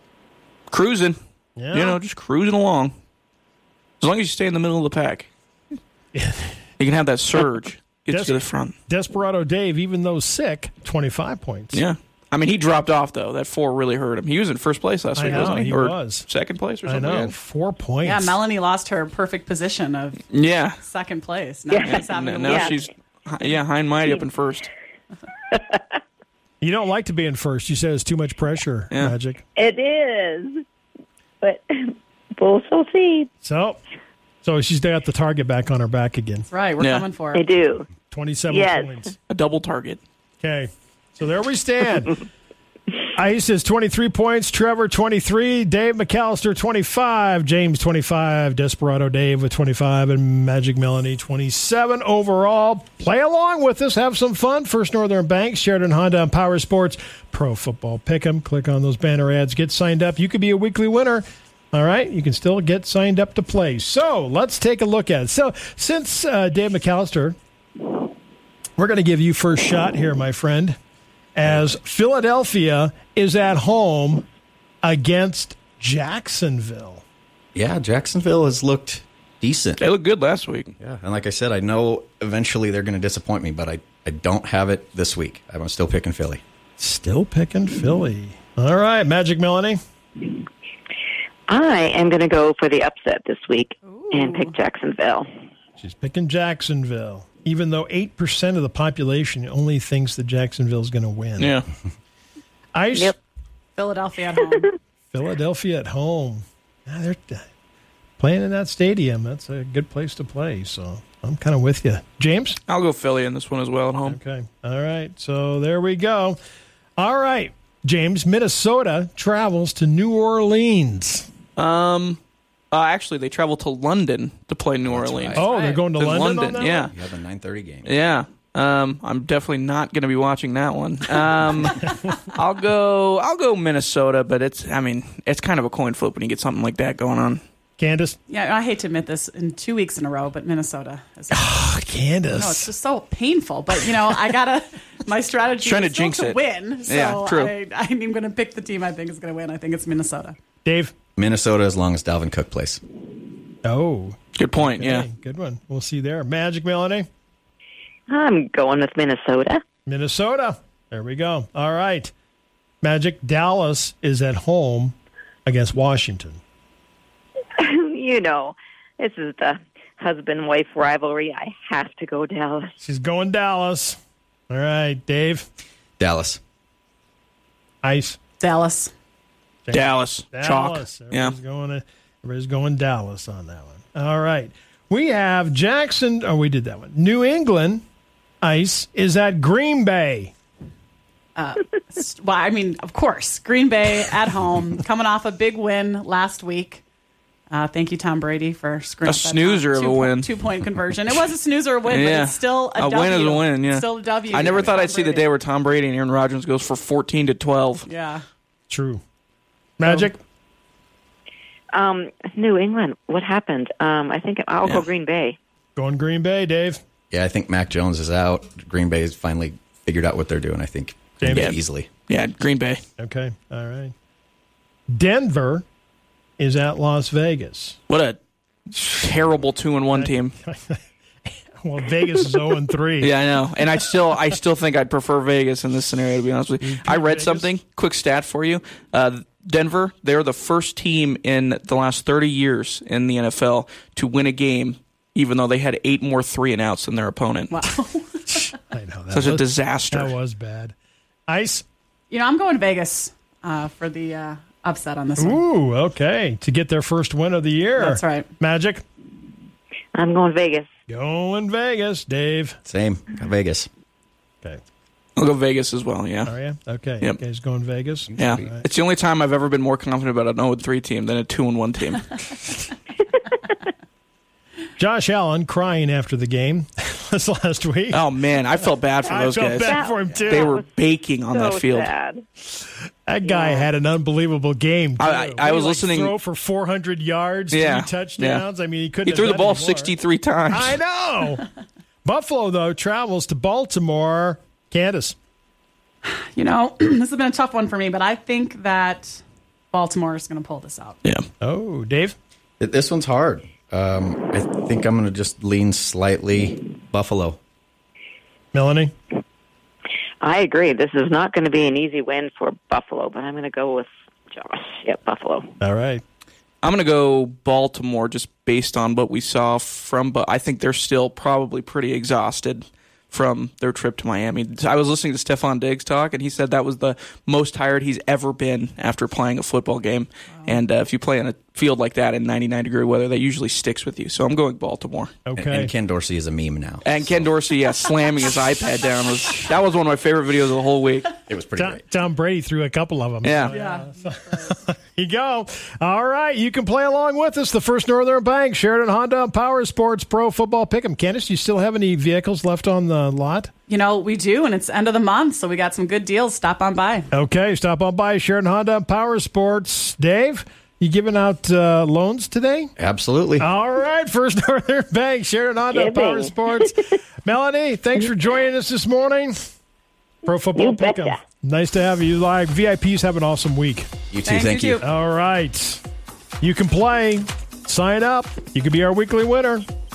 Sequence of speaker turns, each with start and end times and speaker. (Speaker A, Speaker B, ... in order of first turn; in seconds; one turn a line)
Speaker A: 0.7-1.2
Speaker B: 1.6-2.0
Speaker A: 1.7-3.0
Speaker A: 4.0-5.3
Speaker B: 6.1-6.6
Speaker A: 6.8-8.7
Speaker B: 8.1-11.8
Speaker A: 11.7-17.4
Speaker B: 15.2-16.3
Speaker B: 16.9-18.4
Speaker C: 18.0-20.3
Speaker A: 20.3-20.8
Speaker C: 20.8-22.8
Speaker D: 21.7-22.8
Speaker A: 21.9-24.7
Speaker D: 25.5-25.8
Speaker B: 26.6-29.4
Speaker D: 29.6-30.6
Speaker D: 31.4-33.3
Speaker B: 33.4-33.8
Speaker B: 34.4-36.5
Speaker C: 36.5-37.5
Speaker A: 36.8-37.0
Speaker D: 37.3-39.1
Speaker B: 38.0-39.1
Speaker A: 39.3-40.0
Speaker B: 40.4-42.2
Speaker B: 43.1-67.4
Speaker B: 68.8-70.8
Speaker B: 71.3-74.2
Speaker B: 74.8-77.0
Speaker E: 77.5-79.8
Speaker A: 79.8-80.8
Speaker E: 80.8-86.4
Speaker B: 86.8-89.8
Speaker D: 91.5-95.3
Speaker C: 93.8-94.5
Speaker B: 95.8-101.6
Speaker A: 101.4-101.7
Speaker B: 102.7-103.2
Speaker C: 103.8-104.7
Speaker B: 105.1-107.5
Speaker B: 108.2-112.6
Speaker A: 112.7-114.2
Speaker B: 114.0-116.4
Speaker B: 117.0-121.3
Speaker A: 121.6-122.2
Speaker A: 122.7-126.9
Speaker E: 124.9-125.5
Speaker B: 125.3-126.8
Speaker C: 125.4-125.8
Speaker E: 126.6-128.0
Speaker A: 127.8-137.4
Speaker B: 137.8-138.2
Speaker C: 138.3-150.4
Speaker B: 141.3-142.7
Speaker A: 145.6-147.5
Speaker B: 150.7-150.9
Speaker E: 151.2-152.8
Speaker B: 153.6-157.1
Speaker A: 154.4-155.1
Speaker D: 158.1-159.6
Speaker B: 159.9-162.1
Speaker B: 162.8-166.4
Speaker D: 167.6-172.8
Speaker B: 172.8-174.0
Speaker B: 174.5-175.5
Speaker E: 176.0-176.4
Speaker B: 177.8-178.2
Speaker C: 178.4-178.9
Speaker B: 179.7-187.8
Speaker A: 179.7-181.3
Speaker B: 188.4-190.3
Speaker C: 191.4-196.8
Speaker C: 197.5-205.3
Speaker A: 199.1-200.3
Speaker A: 201.9-207.9
Speaker C: 207.9-208.2
Speaker B: 208.7-209.0
Speaker B: 209.8-210.2
Speaker D: 211.7-215.4
Speaker B: 215.8-216.8
Speaker E: 217.1-221.9
Speaker B: 221.2-221.6
Speaker A: 221.3-222.8
Speaker B: 223.0-223.9
Speaker B: 224.9-225.7
Speaker B: 226.4-227.8
Speaker A: 227.9-228.2
Speaker A: 228.7-230.3
Speaker B: 229.9-233.2
Speaker A: 233.0-247.6
Speaker B: 236.6-237.5
Speaker C: 247.5-248.5
Speaker B: 248.3-250.7
Speaker A: 249.1-250.1
Speaker B: 251.3-251.7
Speaker C: 252.1-255.4
Speaker B: 255.2-258.8
Speaker C: 257.8-258.3
Speaker D: 259.9-260.7
Speaker B: 260.9-262.6
Speaker E: 262.7-263.7
Speaker A: 265.2-266.3
Speaker B: 266.2-268.6
Speaker E: 268.1-268.5
Speaker A: 268.2-272.3
Speaker B: 274.8-278.0
Speaker A: 277.9-281.9
Speaker B: 279.1-280.6
Speaker D: 279.6-280.7
Speaker D: 281.3-282.3
Speaker B: 282.6-289.9
Speaker D: 283.2-283.6
Speaker A: 285.0-286.1
Speaker A: 287.5-288.4
Speaker A: 289.1-290.8
Speaker B: 290.5-291.5
Speaker B: 292.1-295.2
Speaker C: 296.1-301.0
Speaker B: 301.4-302.2
Speaker E: 302.6-307.4
Speaker B: 308.5-308.9
Speaker D: 310.2-315.5
Speaker B: 315.6-316.0
Speaker A: 316.6-335.1
Speaker B: 335.3-335.7
Speaker E: 335.4-337.3
Speaker A: 336.9-341.1
Speaker E: 341.3-341.8
Speaker B: 341.6-353.5
Speaker A: 343.2-343.6
Speaker C: 343.5-344.6
Speaker C: 353.7-357.1
Speaker B: 357.1-362.7
Speaker E: 362.8-363.5
Speaker B: 363.4-369.4
Speaker D: 365.7-367.0
Speaker B: 370.3-373.9
Speaker D: 370.5-371.2
Speaker E: 374.1-374.8
Speaker C: 374.3-374.9
Speaker B: 374.8-375.8
Speaker B: 376.4-379.7